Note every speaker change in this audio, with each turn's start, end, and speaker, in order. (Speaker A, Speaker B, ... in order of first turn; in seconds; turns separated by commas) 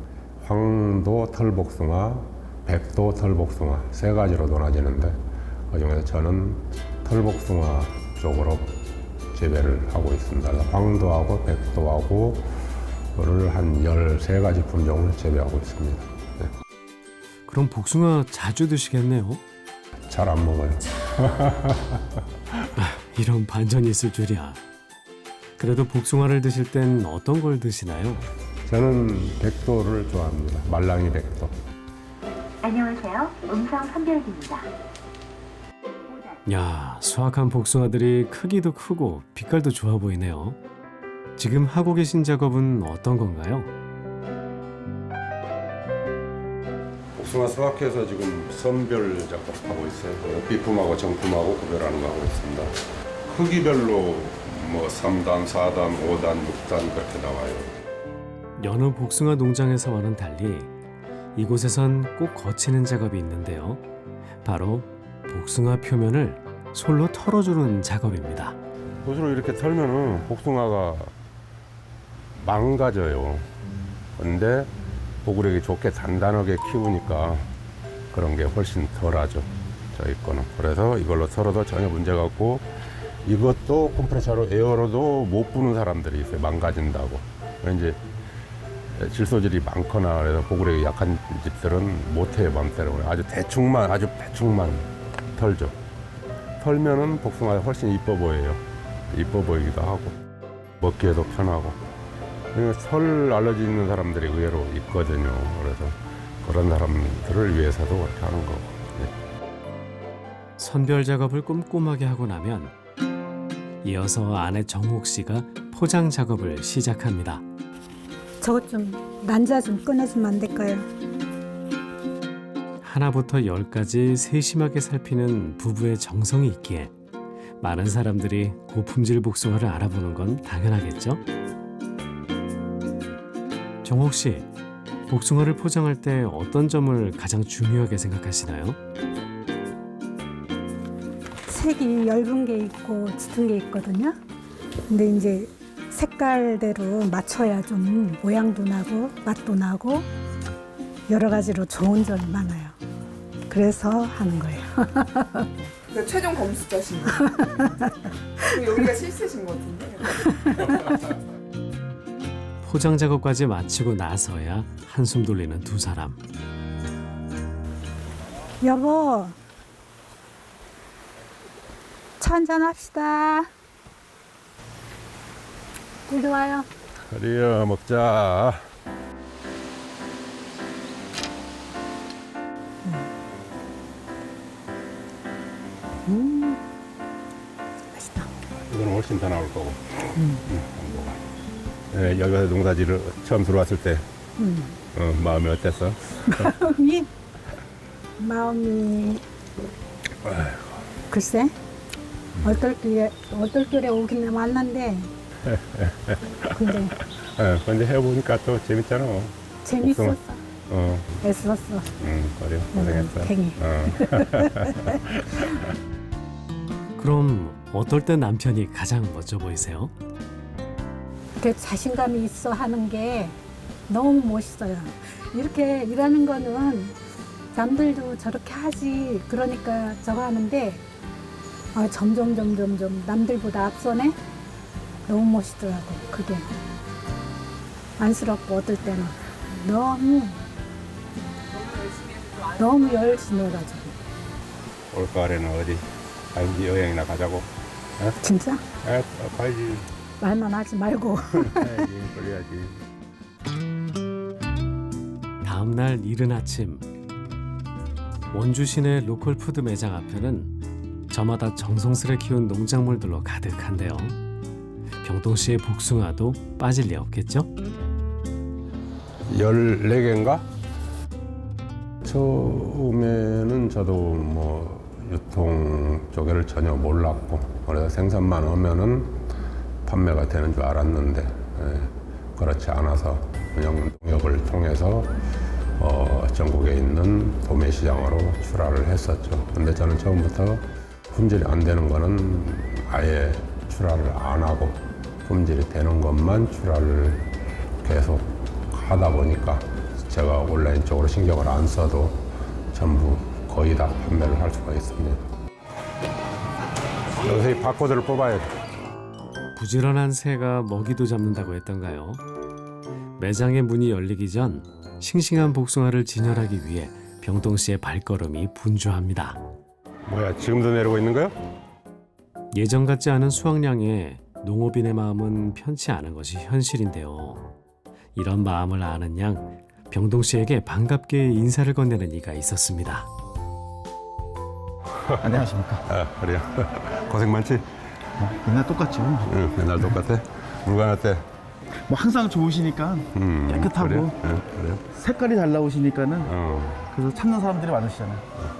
Speaker A: 0.4-8.8, Speaker A: 9.3-12.5, Speaker A: 13.1-16.6, Speaker B: 17.5-19.4, Speaker A: 20.1-22.2, Speaker B: 22.8-24.6, Speaker B: 25.6-28.3, Speaker A: 28.6-31.5, Speaker C: 32.6-34.7, Speaker B: 36.5-40.6, Speaker B: 41.4-43.7, Speaker A: 47.1-52.7, Speaker A: 53.2-57.7, Speaker B: 58.6-60.7, Speaker B: 61.4-63.8, Speaker B: 64.4-68.6, Speaker A: 69.0-71.1, Speaker A: 72.4-73.5, Speaker A: 74.2-74.7, Speaker A: 75.2-77.5, Speaker A: 78.1-82.7, Speaker A: 83.2-88.0, Speaker A: 88.9-95.8, Speaker A: 96.6-100.2, Speaker A: 100.8-101.8, Speaker A: 102.5-109.1, Speaker B: 110.6-112.7, Speaker B: 113.8-117.4, Speaker D: 118.4-120.9, Speaker B: 122.8-126.9, Speaker B: 127.6-131.2, Speaker B: 133.8-134.5, Speaker B: 135.1-138.8, Speaker D: 141.5-144.2, Speaker D: 144.9-150.1, Speaker D: 151.1-152.8, Speaker D: 153.5-155.5, Speaker E: 155.9-157.4, Speaker E: 158.5-160.3, Speaker D: 160.5-160.8, Speaker B: 162.6-166.2, Speaker D: 168.6-169.3, Speaker D: 172.2-173.5, Speaker D: 176.1-176.7, Speaker A: 177.0-178.6, Speaker D: 186.1-186.6, Speaker D: 187.9-188.3, Speaker A: 188.7-191.2, Speaker D: 190.1-190.4, Speaker A: 191.9-194.1, Speaker D: 194.4-194.8, Speaker A: 194.9-196.6, Speaker D: 196.3-197.1, Speaker D: 198.2-199.2, Speaker A: 200.2-200.9, Speaker D: 201.1-201.5, Speaker A: 202.3-202.6, Speaker D: 202.4-205.1, Speaker A: 205.4-211.1, Speaker D: 206.5-206.9, Speaker D: 209.6-210.4, Speaker D: 211.2-211.9, Speaker A: 212.0-215.5, Speaker D: 212.7-215.0, Speaker B: 217.0-219.9, Speaker D: 221.4-223.4, Speaker D: 223.9-226.9, Speaker D: 227.5-230.8, Speaker D: 231.7-234.2, Speaker D: 235.1-236.5, Speaker D: 238.0-240.4, Speaker D: 242.5-243.9, Speaker A: 244.9-248.2, Speaker D: 248.2-248.6, Speaker A: 248.8-249.9, Speaker D: 250.2-251.8, Speaker A: 251.3-252.8, Speaker B: 255.4-256.8, Speaker B: 258.3-260.5, Speaker B: 261.1-264.1, Speaker B: 265.0-267.5, Speaker A: 269.2-270.4, Speaker A: 272.0-279.2, Speaker A: 279.8-285.2, Speaker A: 285.8-297.3, Speaker A: 297.8-305.2, Speaker A: 307.1-308.5, Speaker B: 309.5-312.2, Speaker B: 313.2-319.4, Speaker A: 320.1-321.4, Speaker B: 322.5-327.4, Speaker B: 328.1-333.1, Speaker A: 335.0-337.7, Speaker F: 335.2-335.9, Speaker F: 338.2-339.3, Speaker A: 339.2-341.2, Speaker F: 341.8-344.1, Speaker A: 343.1-344.8, Speaker F: 344.9-346.3, Speaker A: 346.2-346.9, Speaker F: 346.9-348.3